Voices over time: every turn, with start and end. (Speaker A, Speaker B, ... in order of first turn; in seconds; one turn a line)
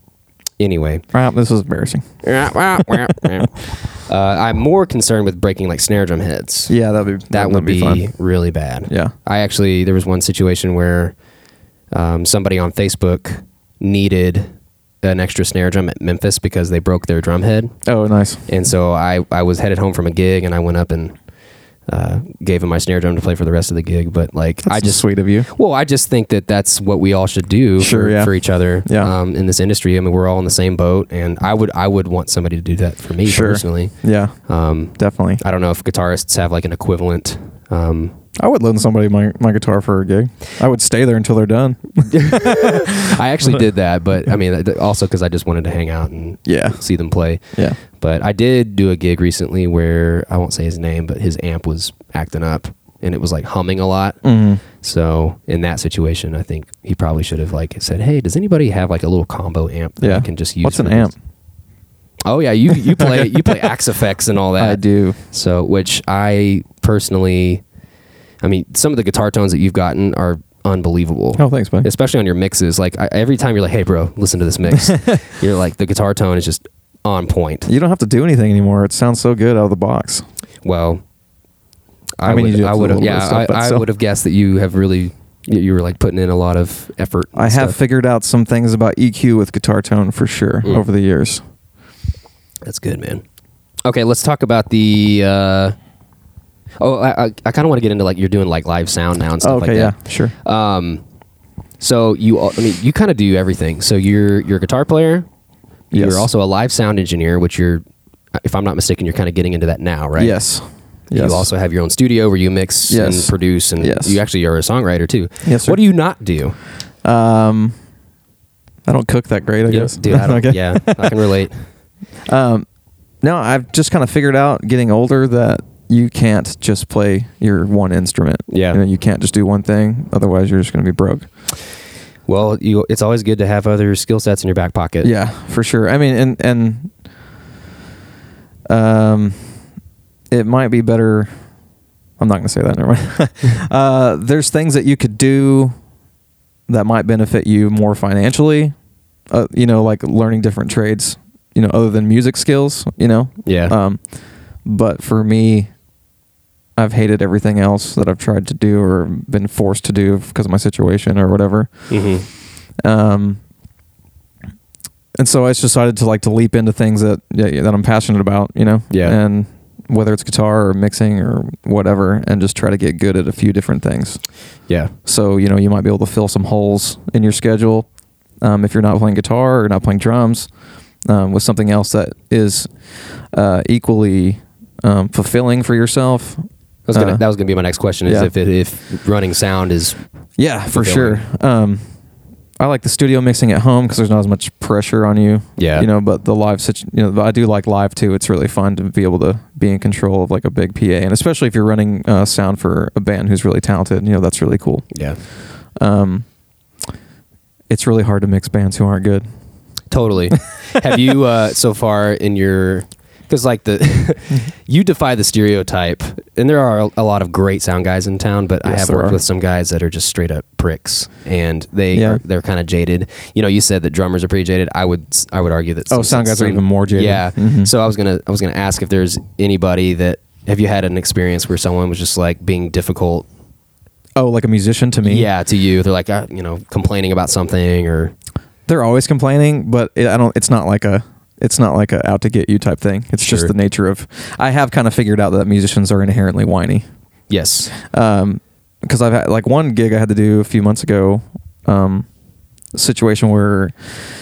Speaker A: 0.6-1.0
Speaker B: 1.1-2.1
Speaker A: 2.2-6.7
Speaker B: 6.7-8.0
Speaker A: 7.3-11.2
Speaker A: 11.9-14.5
Speaker A: 15.0-17.7
Speaker B: 17.9-18.4
Speaker A: 18.5-21.1
Speaker A: 21.9-34.0
Speaker B: 24.6-25.5
Speaker B: 27.8-29.1
Speaker B: 33.2-34.4
Speaker A: 34.5-38.1
Speaker B: 35.0-35.4
Speaker B: 38.4-43.6
Speaker A: 42.1-61.1
Speaker B: 46.5-46.8
Speaker B: 54.2-54.6
Speaker B: 60.0-61.1
Speaker A: 62.2-67.6
Speaker B: 63.0-63.5
Speaker B: 64.6-65.2
Speaker A: 68.4-77.7
Speaker B: 71.4-71.9
Speaker B: 77.7-80.2
Speaker A: 80.7-81.0
Speaker A: 82.2-87.8
Speaker B: 82.2-83.9
Speaker B: 87.4-91.4
Speaker A: 92.7-93.2
Speaker A: 93.8-95.8
Speaker A: 96.8-101.0
Speaker B: 99.4-100.3
Speaker A: 101.8-105.3
Speaker B: 105.9-106.3
Speaker A: 105.9-107.8
Speaker A: 108.3-110.4
Speaker B: 110.2-111.5
Speaker A: 111.1-116.6
Speaker B: 112.9-114.2
Speaker B: 115.5-115.8
Speaker B: 117.0-117.8
Speaker B: 118.9-121.2
Speaker A: 119.7-121.7
Speaker B: 122.3-122.7
Speaker B: 123.2-131.3
Speaker A: 128.5-128.8
Speaker A: 132.3-135.1
Speaker B: 135.0-136.9
Speaker B: 138.7-139.6
Speaker B: 140.3-141.3
Speaker B: 142.2-145.8
Speaker B: 146.7-148.8
Speaker B: 149.3-154.0
Speaker A: 153.5-153.8
Speaker B: 154.7-155.7
Speaker B: 156.8-161.9
Speaker A: 161.9-162.3
Speaker B: 162.8-163.4
Speaker B: 165.2-174.2
Speaker A: 168.9-169.2
Speaker A: 174.7-174.9
Speaker B: 175.1-177.9
Speaker B: 178.4-180.5
Speaker B: 181.1-182.7
Speaker B: 183.3-187.2
Speaker A: 186.9-190.0
Speaker B: 188.1-188.3
Speaker B: 190.4-191.8
Speaker A: 190.7-191.2
Speaker B: 192.6-204.9
Speaker A: 195.6-195.9
Speaker A: 204.9-205.2
Speaker B: 205.8-206.3
Speaker B: 207.7-209.3
Speaker A: 209.9-233.3
Speaker B: 218.7-219.2
Speaker B: 221.9-222.2
Speaker B: 225.9-227.7
Speaker B: 234.2-235.3
Speaker A: 235.0-238.2
Speaker B: 238.7-246.9
Speaker A: 243.2-243.5
Speaker A: 247.3-247.7
Speaker B: 247.7-252.1
Speaker B: 252.7-253.8